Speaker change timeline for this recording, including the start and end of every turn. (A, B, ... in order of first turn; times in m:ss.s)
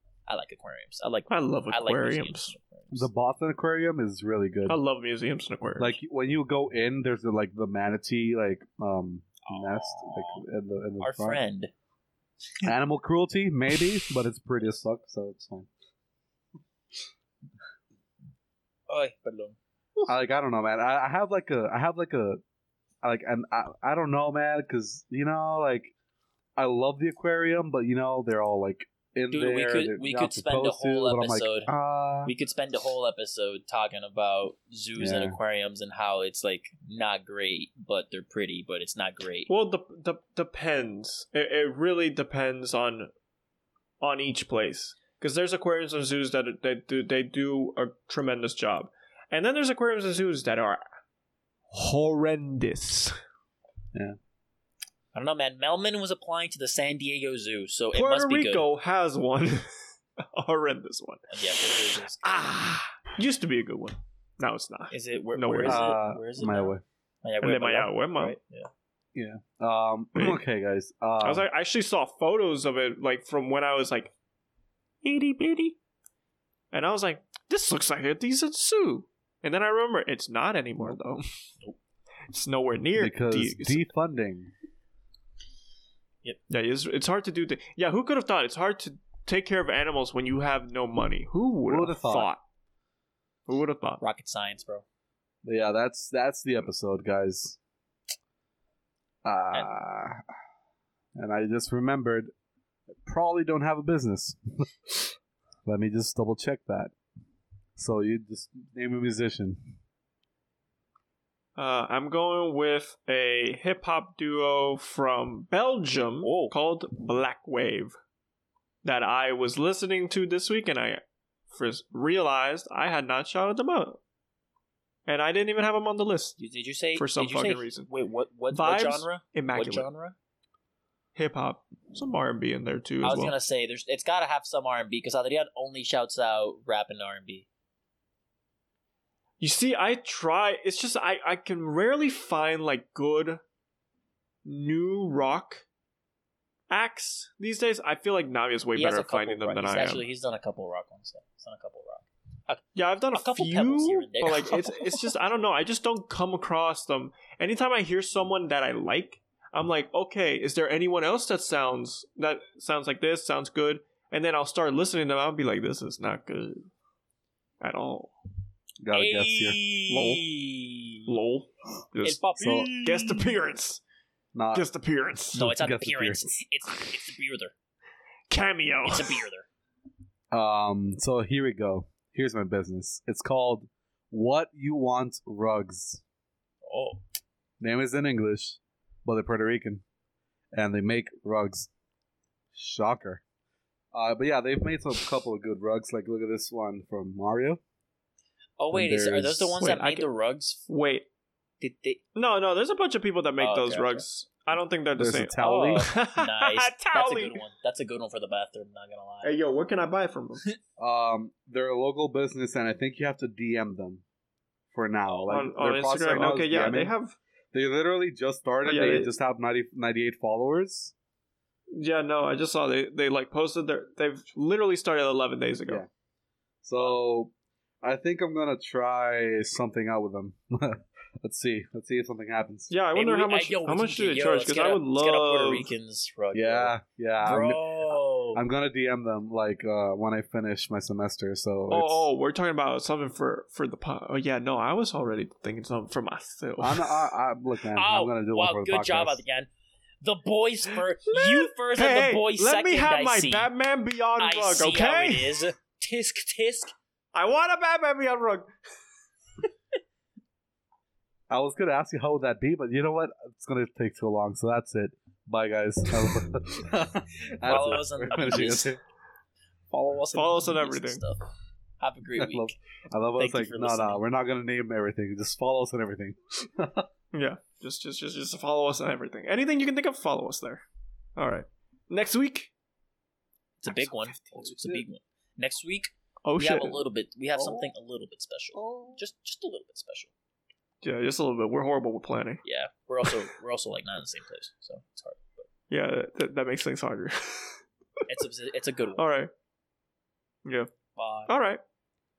0:00.3-0:03.1 A
0:01.3-0:02.5 B
0:02.9-0:04.8 C
0:04.7-0:06.0 B
0:05.8-0:11.4 C
0:09.4-0:10.4 A
0:11.0-0:11.7 A
0:12.6-0:15.7 C
0:18.9-0:19.6 A
0:20.0-0:22.4 C
0:23.0-0:25.9 C
0:26.6-0:32.3 C
0:29.3-0:31.7 A
0:32.2-0:39.5 A
0:35.0-0:35.4 C
0:39.5-0:43.1 B
0:44.0-0:50.8 B
0:51.7-0:53.2 B
0:55.1-0:58.6 A
0:57.9-1:05.9 B
1:01.3-1:02.3 A
1:04.9-1:08.7 A
1:05.6-1:06.8 C
1:07.4-1:08.4 B
1:09.1-1:11.5 C
1:10.2-1:10.4 B
1:11.2-1:14.1 B
1:15.0-1:15.8 B
1:16.7-1:21.2 B
1:22.3-1:23.8 B
1:23.0-1:24.5 C
1:26.5-1:32.4 B
1:31.7-1:32.3 C
1:33.5-1:34.0 B
1:34.0-1:34.8 A
1:35.4-1:37.6 C
1:39.2-1:40.2 C
1:41.2-1:42.3 C
1:42.9-1:46.9 C
1:47.8-1:49.8 C
1:51.6-1:58.0 B
1:56.2-1:56.5 A
1:58.8-2:04.0 B
2:05.0-2:06.4 B
2:06.4-2:10.1 A
2:06.9-2:07.9 B
2:08.5-2:09.9 B
2:11.2-2:13.4 B
2:13.0-2:17.5 A
2:19.4-2:23.4 B
2:24.4-2:25.6 B
2:26.7-2:30.0 B
2:28.7-2:32.6 A
2:32.7-2:46.7 B
2:33.1-2:35.0 A
2:47.6-2:48.1 B
2:48.8-2:49.6 C
2:48.9-2:51.1 A
2:49.9-2:50.3 B
2:51.0-2:53.8 B
2:52.0-2:52.9 A
2:52.4-2:53.2 C
2:54.3-2:54.7 C
2:54.5-2:55.4 B
2:55.3-2:56.4 C
2:55.3-2:57.5 A
2:58.3-2:59.2 B
2:58.9-2:59.5 A
3:00.3-3:06.0 C
3:06.6-3:07.0 A
3:07.6-3:09.8 C
3:10.5-3:11.7 C
3:12.5-3:13.2 C
3:13.9-3:17.6 C
3:18.6-3:20.6 A
3:18.7-3:19.6 C
3:19.6-3:20.1 B
3:20.7-3:21.1 B
3:21.6-3:22.0 A
3:22.1-3:27.4 B
3:23.4-3:24.0 A
3:25.0-3:25.8 C
3:25.4-3:29.3 A
3:29.2-3:30.4 B
3:30.8-3:34.0 C
3:34.7-3:36.9 C
3:35.3-3:37.2 B
3:37.5-3:40.9 C
3:38.6-3:39.1 B
3:41.7-3:45.8 B
3:46.6-3:52.7 C
3:52.7-3:55.7 B
3:52.9-3:58.4 A
3:56.3-3:57.7 C
3:58.3-4:02.1 C
4:01.7-4:07.1 B
4:06.6-4:09.2 C
4:07.7-4:09.5 A
4:10.0-4:13.5 A
4:10.7-4:15.4 B
4:14.2-4:16.7 A
4:17.1-4:18.5 B
4:21.3-4:28.8 C
4:27.4-4:28.7 A
4:29.7-4:31.2 A
4:30.1-4:31.0 B
4:31.8-4:32.6 A
4:32.2-4:36.9 C
4:33.2-4:34.0 A
4:37.1-4:40.6 B
4:41.2-4:42.5 B
4:43.6-4:50.1 A
4:43.7-4:44.2 B
4:44.3-4:44.8 C
4:46.2-4:46.8 B
4:47.4-4:47.7 C
4:48.5-4:49.0 C
4:50.8-4:52.4 B
4:52.4-4:55.4 A
4:55.7-4:57.6 B
4:58.1-4:59.0 A
4:59.0-4:59.3 B
5:00.4-5:00.7 B
5:01.0-5:01.3 A
5:01.3-5:01.6 B